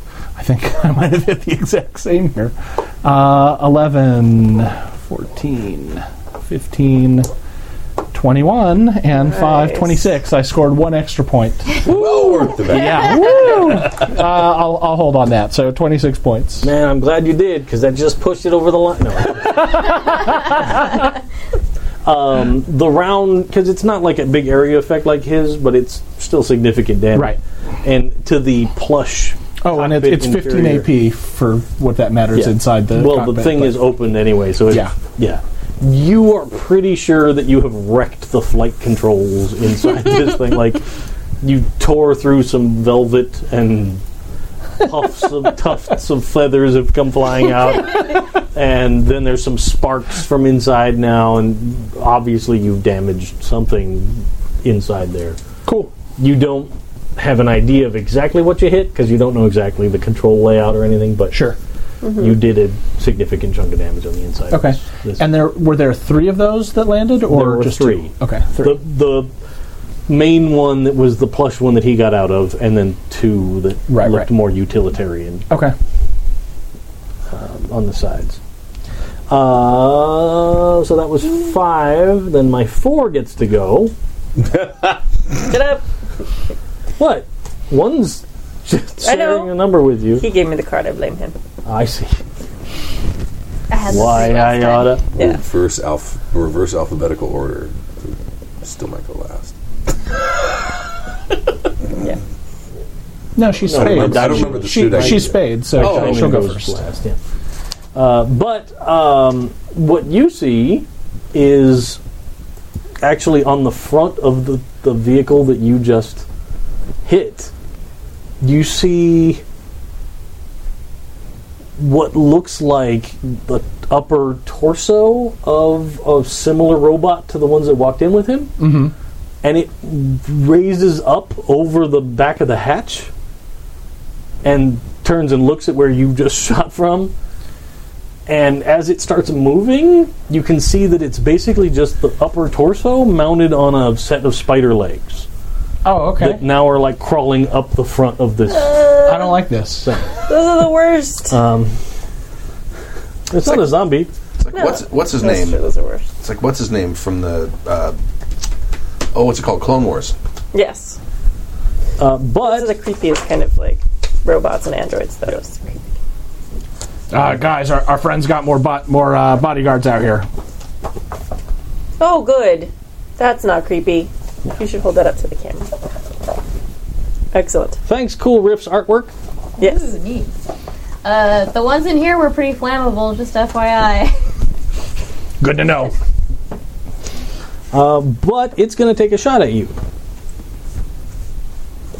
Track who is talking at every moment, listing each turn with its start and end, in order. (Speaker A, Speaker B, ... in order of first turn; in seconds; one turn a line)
Speaker A: 0.3-7.3
Speaker A: 8.1-11.9
Speaker B: 9.2-9.9
Speaker C: 11.8-13.9
Speaker A: 12.5-16.7
Speaker D: 16.6-20.1
Speaker A: 19.5-20.8
Speaker D: 22.0-30.9
Speaker A: 29.6-33.9
Speaker D: 32.3-40.8
Speaker A: 34.7-35.0
Speaker D: 41.4-44.0
Speaker D: 44.8-55.4
Speaker A: 55.6-55.9
Speaker D: 56.1-61.4
Speaker A: 61.3-61.6
Speaker B: 62.0-62.4
Speaker D: 62.2-65.2
Speaker A: 64.5-68.8
Speaker D: 67.2-69.3
Speaker D: 70.1-75.5
Speaker A: 73.9-74.3
Speaker A: 75.5-75.7
Speaker D: 77.3-78.4
Speaker D: 79.3-83.9
Speaker B: 85.4-85.8
Speaker D: 87.0-90.2
Speaker B: 89.0-89.6
Speaker B: 90.2-91.3
Speaker D: 91.6-92.2
Speaker E: 93.7-95.0
Speaker D: 93.9-95.0
Speaker B: 95.2-95.4
Speaker C: 95.2-99.5
Speaker A: 103.3-106.8
Speaker D: 103.6-107.2
Speaker C: 103.7-106.5
Speaker D: 107.9-112.0
Speaker D: 113.0-116.2
Speaker D: 117.0-117.5
Speaker D: 118.4-119.4
Speaker D: 121.8-128.5
Speaker A: 128.6-128.9
Speaker D: 129.4-133.1
Speaker D: 134.4-137.1
Speaker D: 138.3-145.3
Speaker A: 145.8-146.4
Speaker D: 146.2-149.0
Speaker B: 148.5-149.4
Speaker A: 149.0-149.9
Speaker D: 149.8-150.1
Speaker B: 150.2-151.3
Speaker D: 151.3-151.7
Speaker D: 153.3-154.1
Speaker C: 154.4-155.6
Speaker B: 154.5-156.1
Speaker C: 156.2-157.9
Speaker C: 159.1-160.1
Speaker B: 160.5-161.0
Speaker D: 162.0-162.8
Speaker B: 162.4-165.8
Speaker A: 167.1-170.3
Speaker B: 172.0-175.7
Speaker B: 177.3-177.8
Speaker D: 177.9-179.1
Speaker B: 179.6-179.9
Speaker E: 179.6-180.3
Speaker E: 181.0-184.1
Speaker A: 185.4-185.9
Speaker D: 187.7-189.7